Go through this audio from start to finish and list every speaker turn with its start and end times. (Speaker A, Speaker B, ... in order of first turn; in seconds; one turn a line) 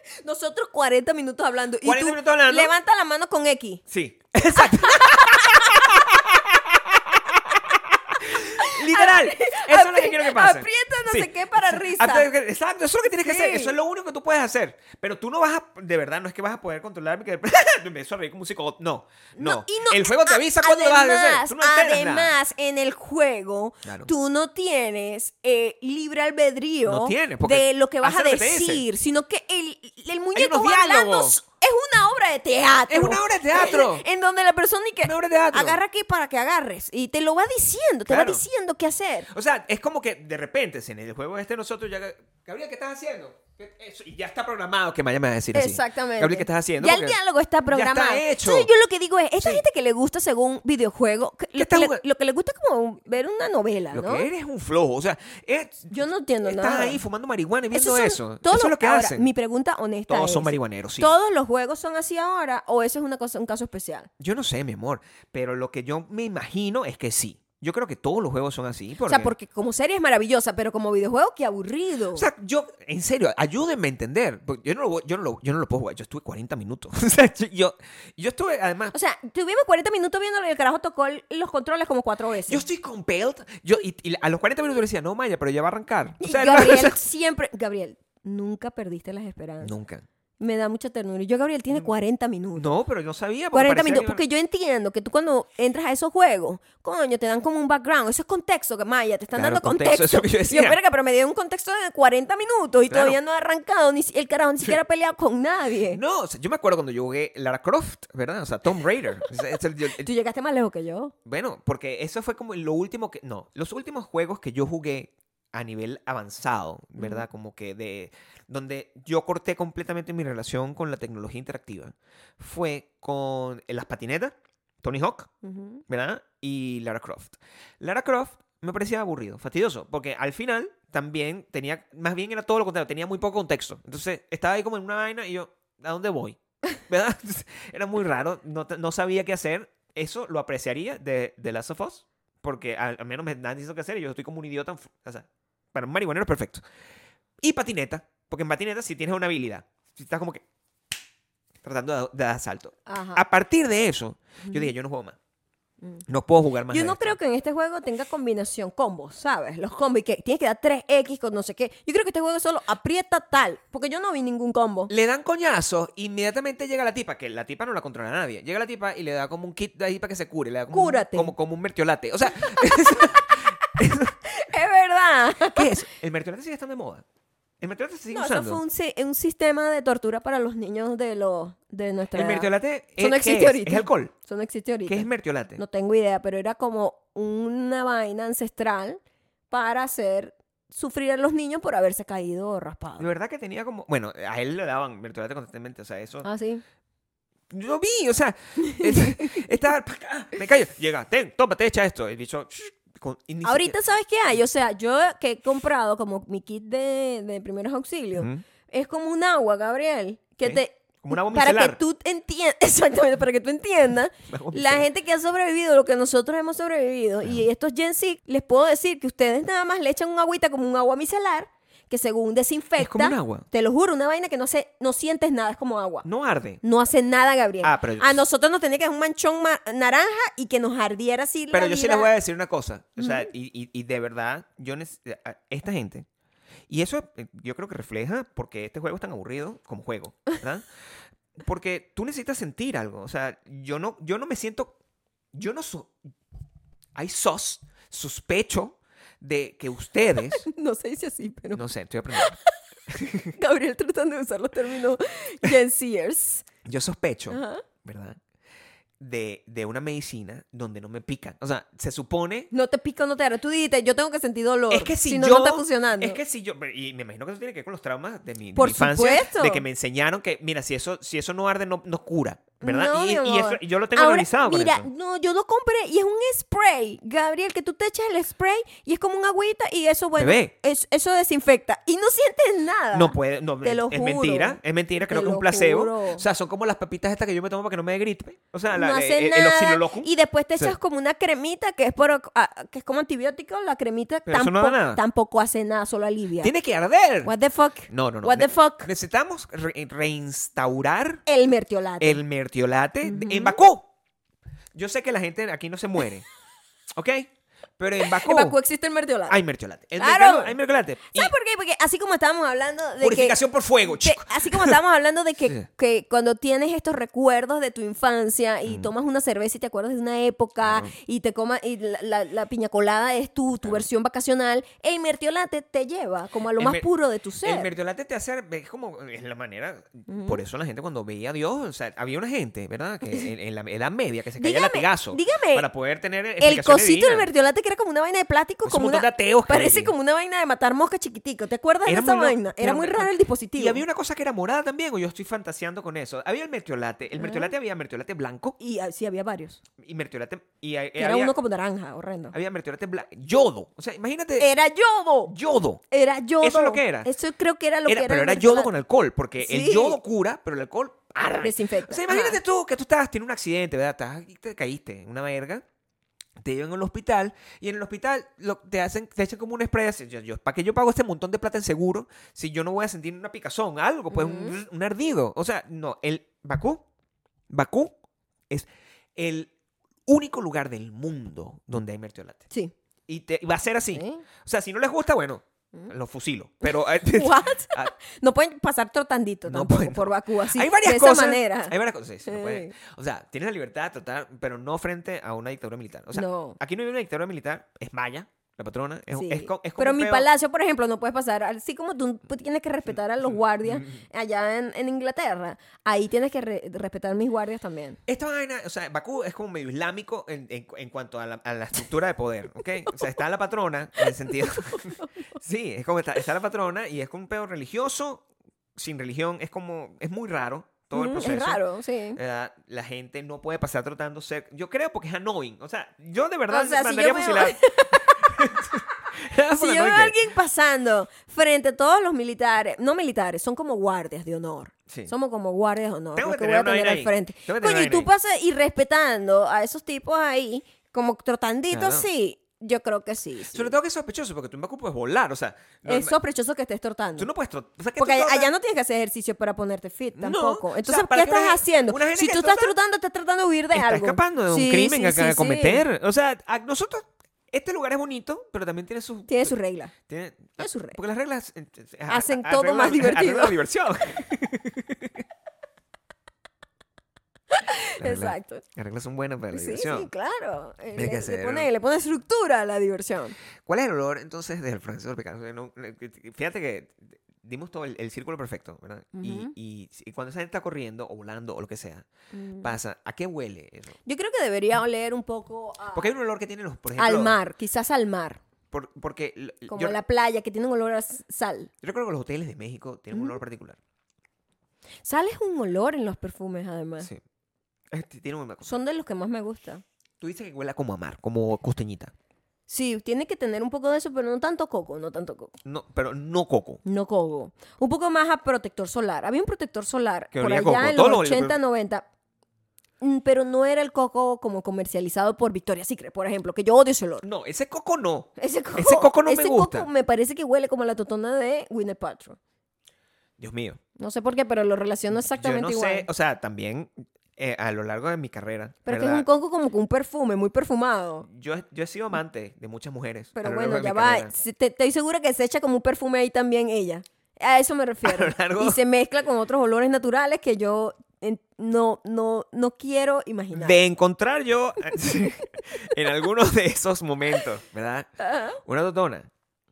Speaker A: 0.2-3.8
Speaker B: 1.8-2.7
Speaker B: 3.9-22.3
Speaker A: 4.5-6.0
Speaker A: 8.5-12.3
Speaker A: 13.2-13.7
Speaker A: 19.4-39.3
Speaker B: 23.8-24.1
Speaker B: 26.9-28.8
Speaker B: 30.3-31.4
Speaker B: 32.9-34.0
Speaker B: 35.0-35.8
Speaker B: 38.1-38.4
Speaker B: 39.3-47.2
Speaker A: 45.5-54.3
Speaker B: 47.7-48.7
Speaker B: 51.5-52.0
Speaker B: 53.9-59.2
Speaker A: 55.9-57.0
Speaker A: 57.7-64.1
Speaker B: 60.1-61.1
Speaker B: 64.2-69.3
Speaker A: 69.1-72.3
Speaker B: 72.1-78.9
Speaker A: 78.9-82.6
Speaker B: 82.5-87.0
Speaker A: 86.2-89.7
Speaker B: 89.6-90.0
Speaker A: 90.4-92.7
Speaker B: 92.5-94.2
Speaker A: 93.5-106.0
Speaker B: 99.3-100.8
Speaker B: 102.9-103.2
Speaker B: 105.9-110.1
Speaker A: 109.9-111.1
Speaker B: 111.2-125.3
Speaker A: 117.0-117.2
Speaker A: 125.4-125.8
Speaker B: 125.9-146.6
Speaker B: 147.4-150.4
Speaker B: 151.6-155.2
Speaker A: 152.8-153.2
Speaker B: 156.1-157.2
Speaker A: 156.7-164.9
Speaker B: 164.9-174.1
Speaker A: 170.7-171.3
Speaker A: 172.4-173.4
Speaker A: 174.2-175.8
Speaker B: 175.5-177.0
Speaker B: 177.6-178.6
Speaker A: 178.1-193.1
Speaker B: 182.1-184.1
Speaker B: 184.9-185.6
Speaker B: 193.0-196.3
Speaker A: 196.2-196.6
Speaker B: 197.5-203.8
Speaker A: 198.6-199.4
Speaker A: 203.4-226.1
Speaker B: 210.4-211.8
Speaker B: 214.3-214.8
Speaker B: 222.8-223.5
Speaker B: 226.0-226.6
Speaker A: 226.6-232.1
Speaker B: 227.6-228.2
Speaker B: 231.5-236.1
Speaker A: 233.0-233.2
Speaker B: 236.7-240.6
Speaker B: 241.3-244.7
Speaker B: 245.3-245.9
Speaker B: 246.9-250.4
Speaker A: 250.4-252.5
Speaker B: 251.5-252.3
Speaker B: 252.9-253.3
Speaker A: 253.3-256.5
Speaker B: 256.6-258.2
Speaker A: 257.3-257.6
Speaker B: 259.0-262.5
Speaker A: 262.5-266.2
Speaker B: 264.7-274.9
Speaker A: 268.6-269.6
Speaker A: 272.6-286.2
Speaker B: 280.2-280.5
Speaker B: 282.9-290.8
Speaker A: 288.7-296.5
Speaker B: 294.3-295.0
Speaker B: 296.4-297.3
Speaker A: 297.2-298.9
Speaker B: 297.9-301.2
Speaker A: 301.3-302.2
Speaker B: 302.0-303.9
Speaker A: 303.0-303.6
Speaker B: 304.7-306.2
Speaker B: 306.9-308.6
Speaker A: 308.0-309.4
Speaker B: 309.3-311.3
Speaker A: 310.0-310.6
Speaker A: 311.1-327.7
Speaker B: 313.0-314.8
Speaker B: 318.6-318.9
Speaker B: 320.6-320.9
Speaker B: 326.6-326.9
Speaker B: 327.4-337.3
Speaker A: 330.1-330.4
Speaker A: 334.4-335.7
Speaker A: 336.4-343.8
Speaker B: 338.6-339.9
Speaker B: 341.9-348.6
Speaker A: 347.2-347.5
Speaker A: 348.6-349.6
Speaker B: 349.8-351.3
Speaker A: 351.0-352.3
Speaker B: 352.3-354.5
Speaker A: 354.4-355.3
Speaker B: 355.3-355.8
Speaker A: 355.9-358.7
Speaker B: 356.4-357.1
Speaker B: 357.9-365.6
Speaker A: 359.4-360.0
Speaker A: 361.2-362.4
Speaker B: 366.4-376.9
Speaker A: 374.1-374.6
Speaker B: 377.5-377.9
Speaker B: 378.5-379.5
Speaker B: 380.1-382.4
Speaker B: 383.1-387.9
Speaker A: 383.9-384.2
Speaker A: 386.6-392.7
Speaker B: 389.5-400.3
Speaker A: 396.1-396.6
Speaker A: 399.1-408.0
Speaker B: 408.1-418.2
Speaker A: 414.7-415.1
Speaker B: 418.8-421.6
Speaker A: 420.9-422.2
Speaker B: 422.1-430.1
Speaker A: 426.5-428.4
Speaker A: 429.5-443.7
Speaker B: 436.1-438.1
Speaker B: 441.7-442.1
Speaker B: 443.5-446.1
Speaker A: 445.8-447.3
Speaker B: 447.2-448.5
Speaker A: 448.0-455.8
Speaker B: 450.1-452.7
Speaker B: 453.7-459.5
Speaker A: 459.3-459.9
Speaker B: 460.1-465.2
Speaker A: 460.6-461.0
Speaker A: 462.1-463.6
Speaker A: 467.5-468.6
Speaker B: 468.0-470.1
Speaker A: 469.5-473.4
Speaker B: 470.9-471.7
Speaker B: 473.6-482.1
Speaker A: 479.1-479.5
Speaker A: 482.3-482.7
Speaker B: 482.6-483.9
Speaker A: 484.0-486.1
Speaker B: 485.9-487.4
Speaker A: 487.0-488.4
Speaker B: 488.7-490.0
Speaker A: 489.7-491.7
Speaker B: 491.8-493.8
Speaker A: 495.0-497.1
Speaker B: 497.9-498.7
Speaker A: 498.6-499.8
Speaker B: 500.2-502.1
Speaker A: 502.7-505.5
Speaker B: 505.6-506.8
Speaker A: 506.8-512.0
Speaker B: 510.3-511.6
Speaker A: 513.0-517.2
Speaker B: 517.2-519.9
Speaker A: 518.4-522.4
Speaker B: 523.4-523.8
Speaker A: 524.0-526.1
Speaker B: 525.2-529.2
Speaker A: 528.9-531.3
Speaker B: 531.2-534.3
Speaker A: 533.4-543.8
Speaker B: 538.0-538.8
Speaker B: 543.5-548.1
Speaker A: 548.2-548.6
Speaker B: 548.6-549.3